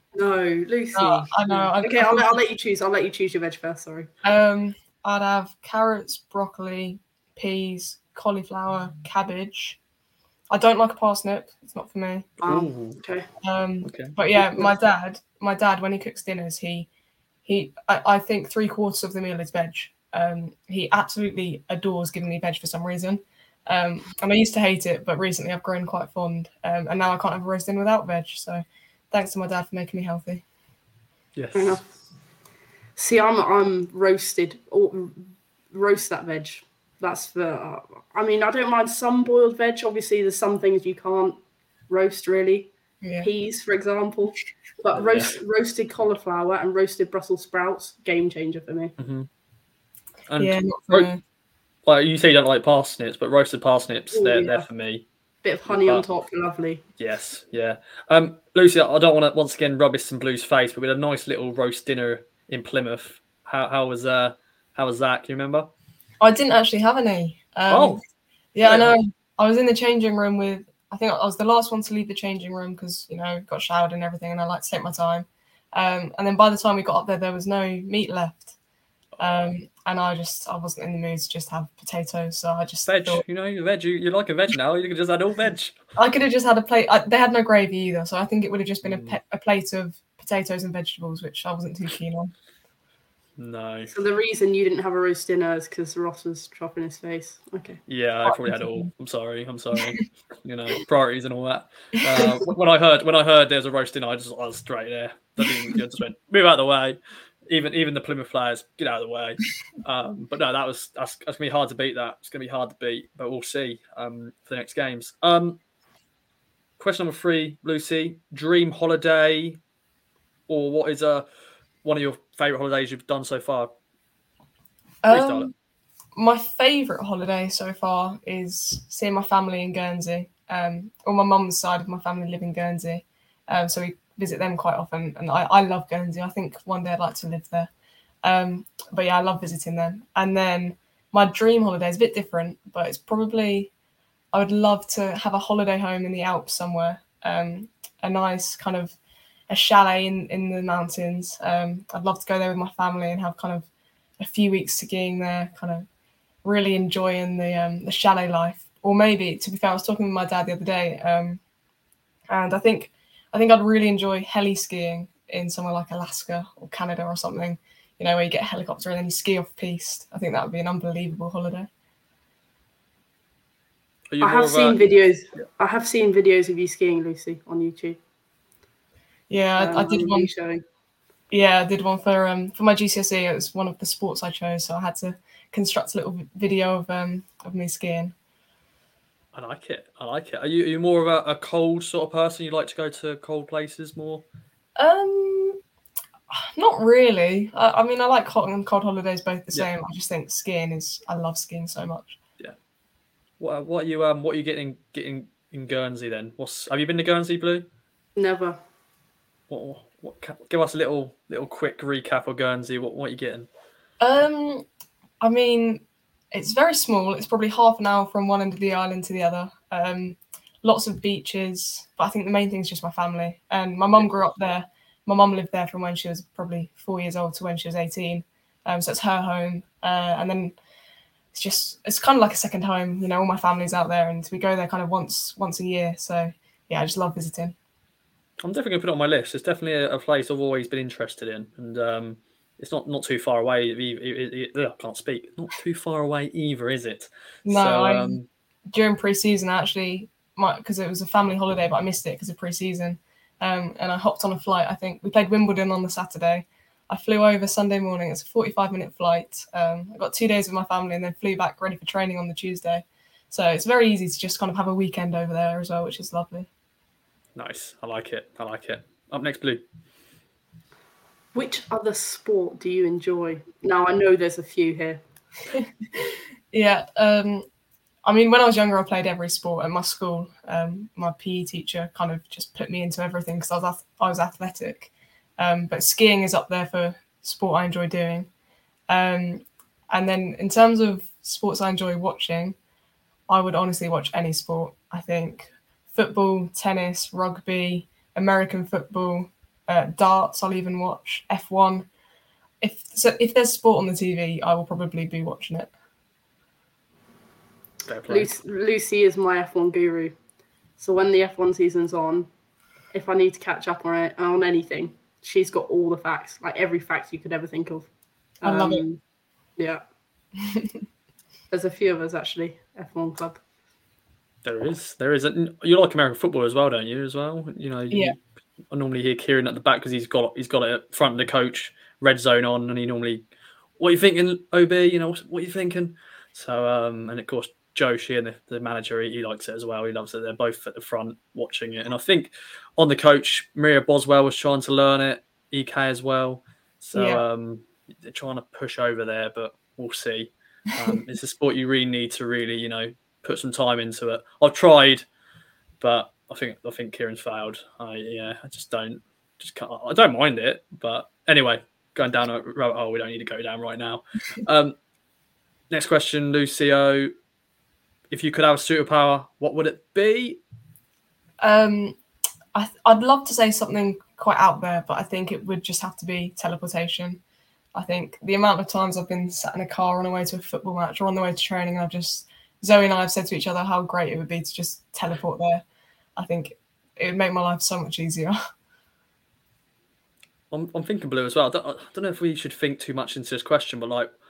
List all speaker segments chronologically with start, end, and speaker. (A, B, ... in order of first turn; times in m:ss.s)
0:00.1-0:04.1 A
0:01.0-0:02.4 B
0:04.2-0:09.8 B
0:10.5-0:12.3 B
0:12.4-0:13.0 C
0:12.4-0:13.3 A
0:13.4-0:16.9 B
0:13.8-0:14.2 C
0:17.5-0:30.4 B
0:31.4-0:31.8 C
0:31.6-0:31.9 A
0:33.0-0:48.9 A
0:43.0-0:43.3 B
0:45.0-0:45.3 C
0:49.0-0:49.3 C
0:50.3-0:51.1 C
0:50.4-0:51.2 B
0:51.9-0:55.1 C
0:54.1-0:54.6 A
0:55.4-0:56.8 A
0:55.7-0:56.0 C
0:57.0-1:05.7 C
1:06.2-1:08.0 B
1:07.7-1:08.0 C
1:08.5-1:18.5 B
1:08.6-1:09.0 C
1:19.2-1:23.2 B
1:22.9-1:25.8 C
1:26.0-1:32.3 B
1:28.8-1:29.2 C
1:33.4-1:33.9 C
1:33.9-1:37.8 A
1:37.9-1:47.0 C
1:38.3-1:38.9 B
1:47.5-1:55.6 C
1:56.8-1:59.6 C
2:00.5-2:01.3 C
2:01.8-2:03.7 C
2:05.0-2:05.5 B
2:05.1-2:05.5 C
2:06.1-2:17.7 B
2:18.2-2:23.7 B
2:24.3-2:29.0 B
2:29.5-2:33.7 B
2:34.2-2:35.9 B
2:36.4-2:41.4 B
2:42.3-2:51.7 B
2:54.1-2:54.8 C
2:54.2-2:58.0 A
2:59.3-3:00.3 B
2:59.6-3:00.6 A
3:01.3-3:08.1 B
3:09.3-3:14.2 C
3:14.8-3:15.6 B
3:16.3-3:22.2 B
3:23.4-3:27.7 C
3:28.2-3:28.6 A
3:29.5-3:33.5 C
3:34.0-3:34.6 B
3:35.2-3:50.6 B
3:51.3-3:57.6 B
3:58.4-4:08.3 C
4:07.4-4:08.2 B
4:08.7-4:26.5 B
4:27.4-4:29.6 C
4:31.4-4:35.0 A
4:35.6-4:37.5 B
4:38.0-4:48.3 B
4:48.9-4:52.6 B
4:53.3-5:01.9 B
5:02.6-5:05.7 B
5:07.9-5:08.3 C
5:08.1-5:10.1 A
5:10.8-5:12.3 A
5:12.9-5:17.9 A
5:18.4-5:18.8 B
5:18.4-5:19.0 A
5:19.6-5:19.8 A
5:21.5-5:23.4 A
5:24.4-5:28.2 C
5:27.9-5:28.2 B
5:28.7-5:33.3 C
5:33.8-5:55.1 C
5:46.9-5:47.2 B
5:55.8-6:04.8 C
6:05.7-6:07.1 C
6:08.1-6:10.4 C
6:11.4-6:12.0 B
6:12.6-6:17.2 B
6:17.8-6:25.6 B
6:26.2-6:28.4 B
6:30.5-6:34.1 C